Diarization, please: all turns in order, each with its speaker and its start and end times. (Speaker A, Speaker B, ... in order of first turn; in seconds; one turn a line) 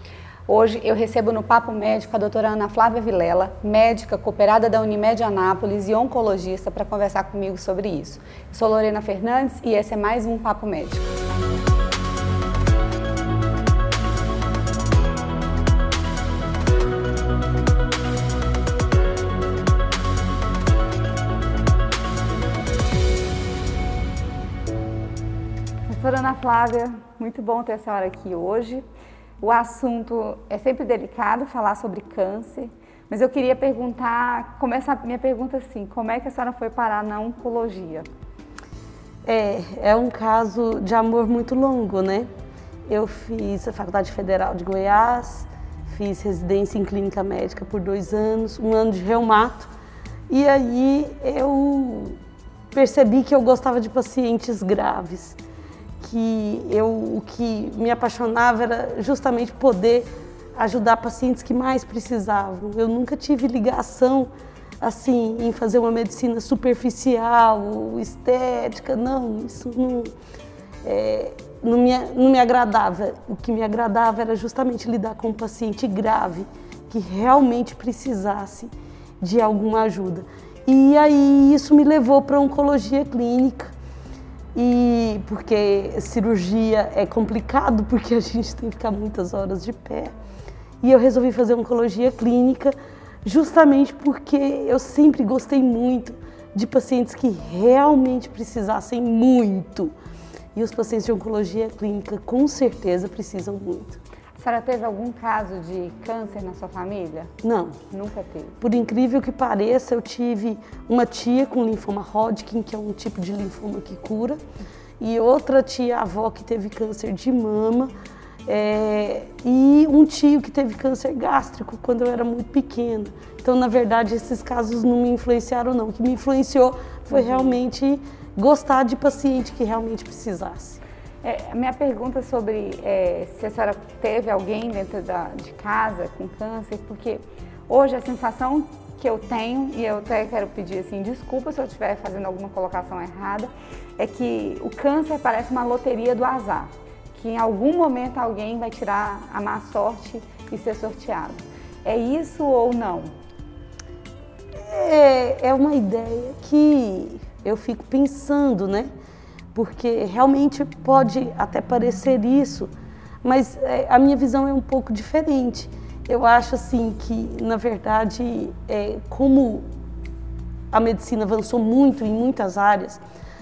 Speaker A: 0.5-11.1
Speaker A: 25.9-28.8
Speaker A: 29.4-38.1
Speaker B: 39.2-42.3
Speaker B: 42.9-49.7
Speaker B: 50.3-52.2
Speaker B: 52.7-55.4
Speaker B: 56.0-64.3
Speaker B: 64.8-70.1
Speaker B: 70.8-83.7
Speaker B: 84.5-90.1
Speaker B: 90.8-99.9
Speaker B: 100.5-104.0
Speaker A: 104.4-107.3
Speaker B: 107.4-107.8
Speaker A: 107.9-108.6
Speaker B: 108.6-114.4
Speaker B: 115.0-117.9
Speaker B: 118.5-130.8
Speaker A: 131.2-153.1
Speaker B: 154.5-158.9
Speaker B: 159.5-162.7
Speaker B: 163.2-169.7
Speaker B: 170.7-173.0